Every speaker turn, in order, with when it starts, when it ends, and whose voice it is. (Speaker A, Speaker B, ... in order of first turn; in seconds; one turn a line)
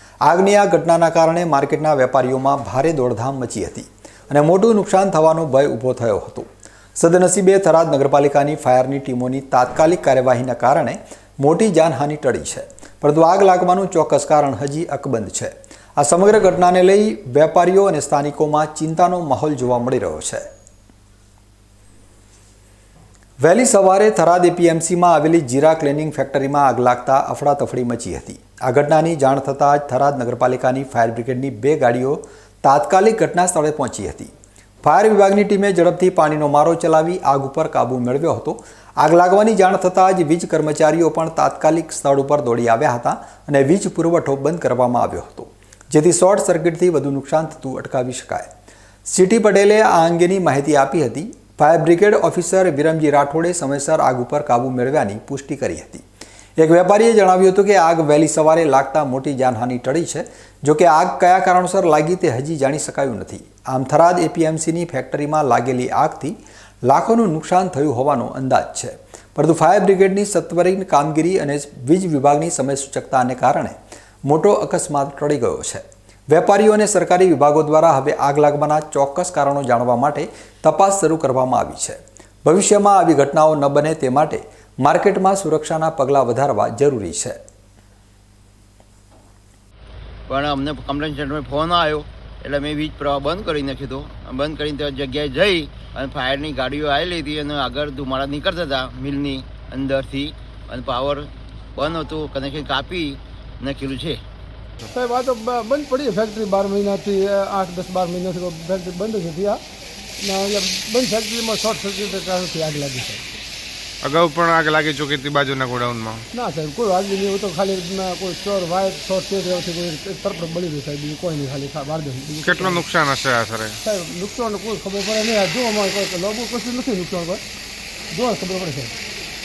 Speaker A: 0.2-20.4
Speaker A: 23.4-34.3
Speaker A: 34.8-48.5
Speaker A: 49.1-56.0
Speaker A: 56.6-87.4
Speaker B: 90.3-104.2
Speaker C: 104.9-109.6
Speaker C: 110.2-113.2
Speaker D: 114.0-116.3
Speaker C: 116.3-122.8
Speaker D: 122.4-123.8
Speaker C: 123.8-127.4
Speaker C: 128.1-128.9